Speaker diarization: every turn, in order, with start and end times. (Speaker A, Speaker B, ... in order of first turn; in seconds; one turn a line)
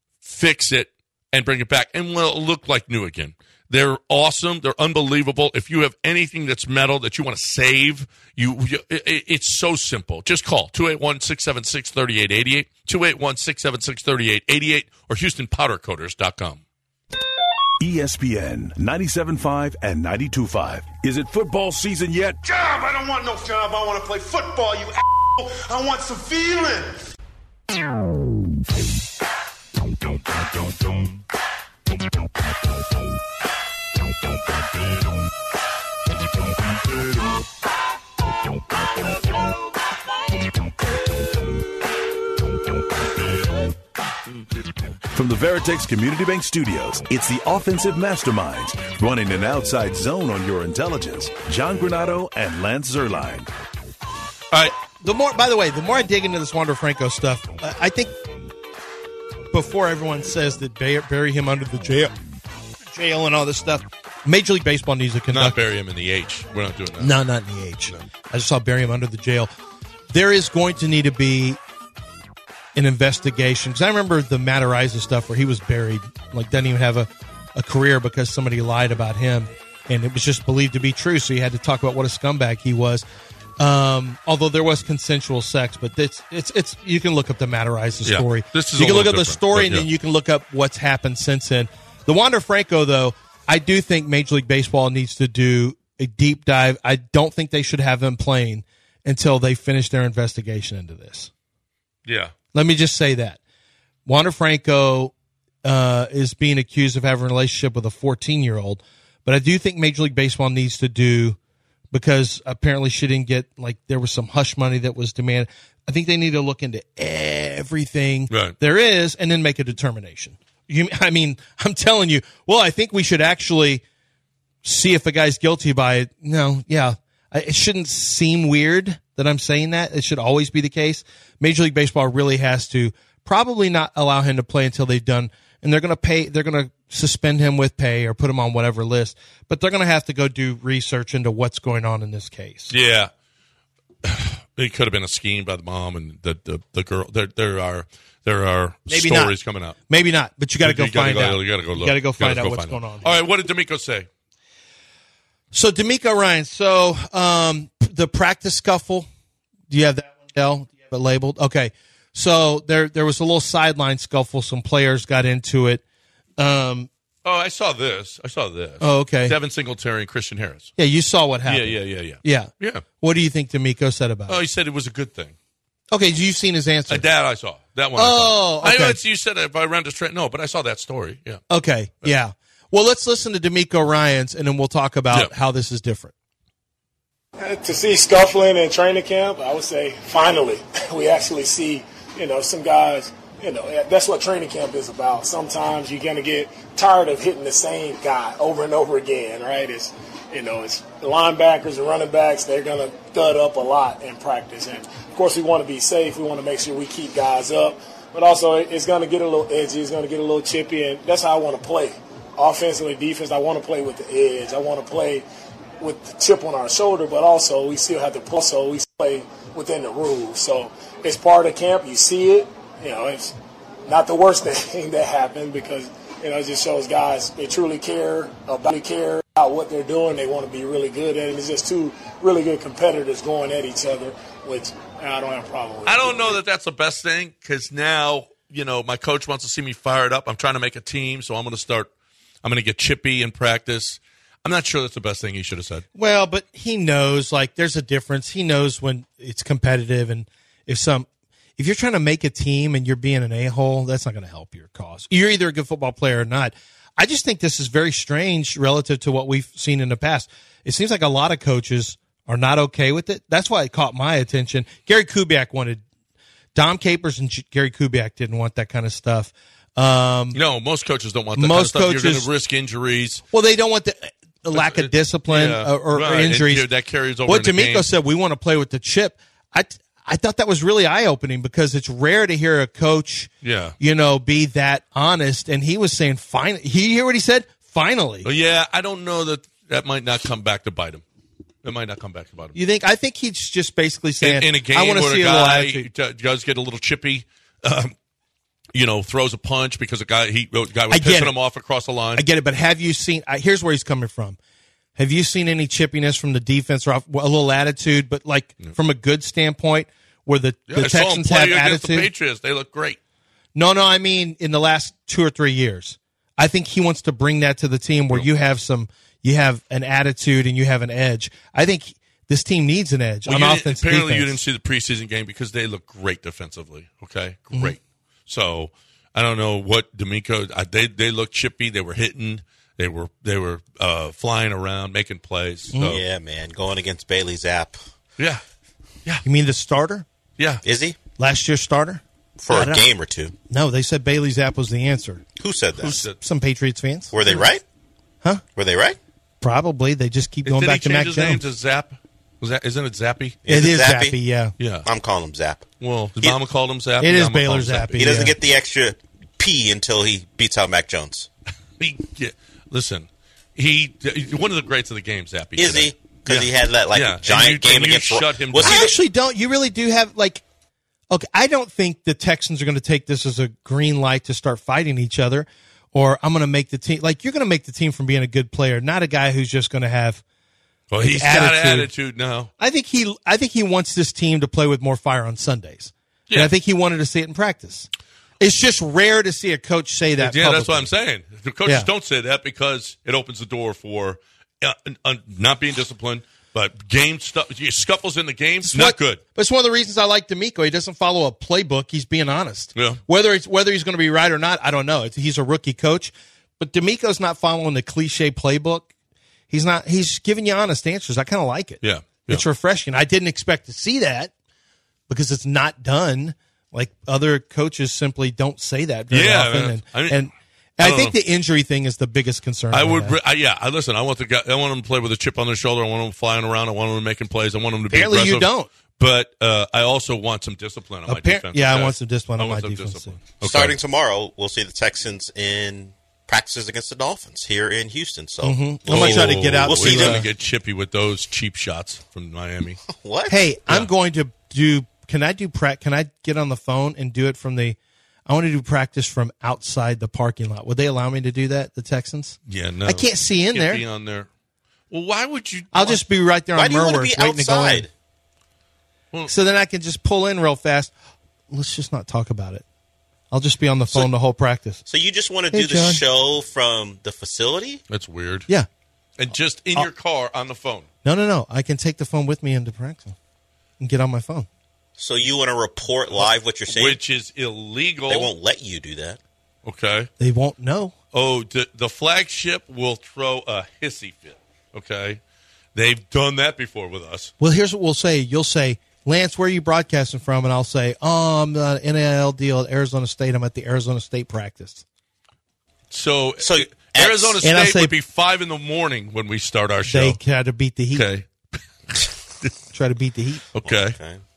Speaker A: 0.2-16.6
Speaker B: 17.8-22.4
Speaker C: 22.4-27.0
Speaker B: 45.1-53.5
Speaker D: 54.5-58.1
Speaker D: 59.5-62.1
Speaker D: 62.9-65.6
Speaker A: 65.3-67.1
Speaker D: 67.0-69.5
Speaker D: 70.1-71.6
Speaker D: 72.7-83.0
Speaker D: 83.6-101.3
Speaker A: 88.0-89.9
Speaker A: 102.1-102.3
Speaker D: 102.5-103.4
Speaker D: 104.0-105.1
Speaker D: 105.6-111.4
Speaker D: 111.9-123.8
Speaker A: 118.3-118.5
Speaker D: 124.6-142.7
Speaker A: 142.7-143.1
Speaker A: 144.0-149.8
Speaker D: 148.9-149.3
Speaker D: 149.9-153.2
Speaker A: 150.6-154.1
Speaker D: 155.5-159.1
Speaker D: 159.7-165.8
Speaker D: 166.4-166.9
Speaker A: 167.2-170.7
Speaker D: 168.8-169.3
Speaker D: 170.8-172.5
Speaker A: 171.4-172.8
Speaker D: 173.0-174.4
Speaker A: 174.3-175.3
Speaker D: 175.9-177.0
Speaker A: 176.9-181.4
Speaker D: 177.9-179.0
Speaker D: 181.5-186.1
Speaker E: 187.4-215.2
Speaker E: 215.8-236.3
Speaker A: 235.8-241.9
Speaker A: 242.4-245.8
Speaker D: 245.9-265.8
Speaker D: 266.5-270.4
Speaker A: 270.3-273.2
Speaker D: 271.4-272.3
Speaker D: 273.3-276.7
Speaker A: 274.5-277.9
Speaker D: 277.2-283.3
Speaker A: 283.4-283.8
Speaker D: 283.8-288.3
Speaker A: 288.2-291.0
Speaker A: 291.6-292.5
Speaker D: 292.5-295.9
Speaker A: 294.2-297.9
Speaker A: 298.7-302.2
Speaker D: 300.9-301.3
Speaker D: 302.1-304.4
Speaker D: 304.9-312.1
Speaker A: 310.7-313.0
Speaker D: 313.5-324.4
Speaker A: 323.2-336.0
Speaker D: 335.7-336.0
Speaker F: 335.9-337.8
Speaker D: 339.2-340.1
Speaker A: 340.4-340.6
Speaker F: 340.6-341.0
Speaker D: 341.2-342.8
Speaker F: 342.4-343.3
Speaker D: 343.5-345.2
Speaker F: 345.4-346.0
Speaker A: 345.8-346.2
Speaker D: 346.2-347.3
Speaker F: 347.1-347.6
Speaker F: 348.6-349.0
Speaker D: 349.4-351.4
Speaker A: 350.4-353.4
Speaker F: 353.4-354.2
Speaker D: 353.5-354.5
Speaker A: 354.6-354.9
Speaker F: 354.8-355.7
Speaker A: 355.8-358.0
Speaker D: 357.0-358.3
Speaker F: 357.9-361.3
Speaker A: 361.8-368.9
Speaker F: 365.6-368.9
Speaker D: 368.6-370.4
Speaker D: 371.1-380.2
Speaker A: 380.9-382.5
Speaker D: 381.0-381.9
Speaker D: 382.6-387.9
Speaker D: 388.4-390.9
Speaker A: 390.2-399.2
Speaker D: 398.7-408.9
Speaker A: 402.8-403.0
Speaker D: 409.5-414.3
Speaker A: 411.8-412.4
Speaker D: 415.1-423.2
Speaker A: 419.1-420.2
Speaker A: 420.8-421.1
Speaker A: 422.7-433.8
Speaker D: 427.9-428.7
Speaker D: 431.1-433.2
Speaker F: 433.4-440.2
Speaker D: 438.4-440.2
Speaker A: 438.9-442.8
Speaker F: 442.9-443.4
Speaker D: 443.3-453.8
Speaker A: 452.5-454.3
Speaker A: 454.9-456.0
Speaker D: 455.7-457.9
Speaker F: 456.5-457.9
Speaker D: 459.3-460.9
Speaker D: 461.5-462.6
Speaker D: 463.3-464.8
Speaker F: 464.9-467.8
Speaker D: 465.5-466.0
Speaker A: 467.9-468.5
Speaker A: 469.2-470.9
Speaker D: 471.0-473.1
Speaker D: 473.8-474.5
Speaker F: 475.0-477.0
Speaker A: 476.7-478.3
Speaker F: 478.1-479.2
Speaker A: 479.6-480.1
Speaker D: 480.2-480.9
Speaker A: 481.1-485.2
Speaker A: 485.7-487.3
Speaker D: 487.4-494.8
Speaker A: 495.9-500.2
Speaker F: 496.4-497.4
Speaker D: 497.4-497.9
Speaker D: 499.9-501.0
Speaker A: 500.9-502.5
Speaker D: 502.7-503.4
Speaker A: 503.5-504.0
Speaker F: 503.6-504.2